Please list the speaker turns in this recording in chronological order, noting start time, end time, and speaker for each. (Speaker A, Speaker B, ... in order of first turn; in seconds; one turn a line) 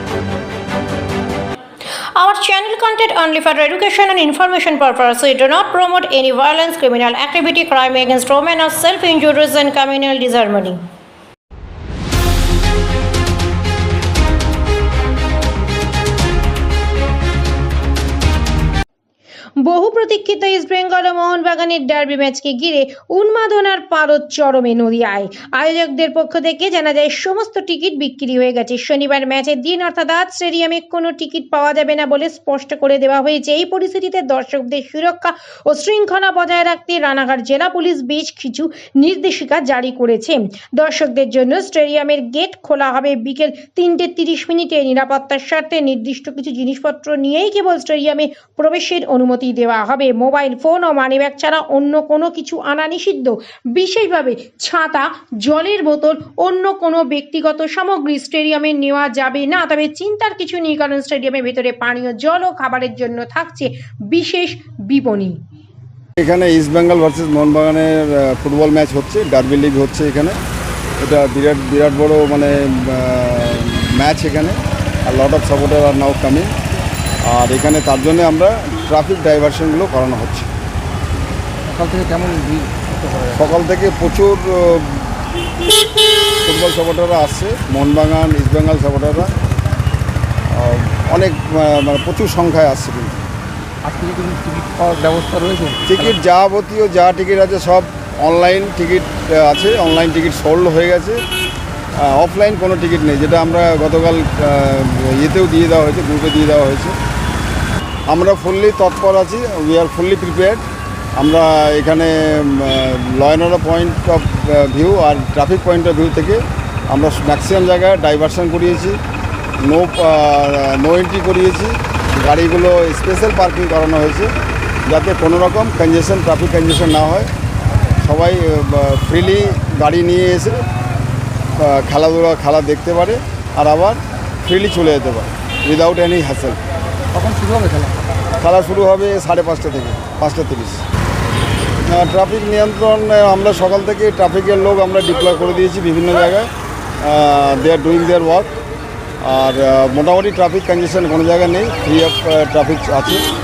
Speaker A: 2.1-10.8
Speaker A: 19.6-65.4
Speaker B: 66.2-70.4
Speaker B: 71.0-76.5
Speaker B: 77.2-80.5
Speaker C: 81.7-83.5
Speaker B: 83.3-85.1
Speaker B: 86.4-89.3
Speaker B: 90.5-93.2
Speaker C: 93.8-96.1
Speaker B: 95.9-101.2
Speaker B: 102.0-107.0
Speaker B: 108.1-110.6
Speaker B: 111.2-119.0
Speaker B: 119.6-124.3
Speaker B: 124.9-127.3
Speaker B: 128.0-130.6
Speaker B: 131.6-136.6
Speaker C: 137.1-138.0
Speaker B: 138.4-140.8
Speaker B: 141.9-146.5
Speaker B: 147.0-148.5
Speaker B: 149.2-153.2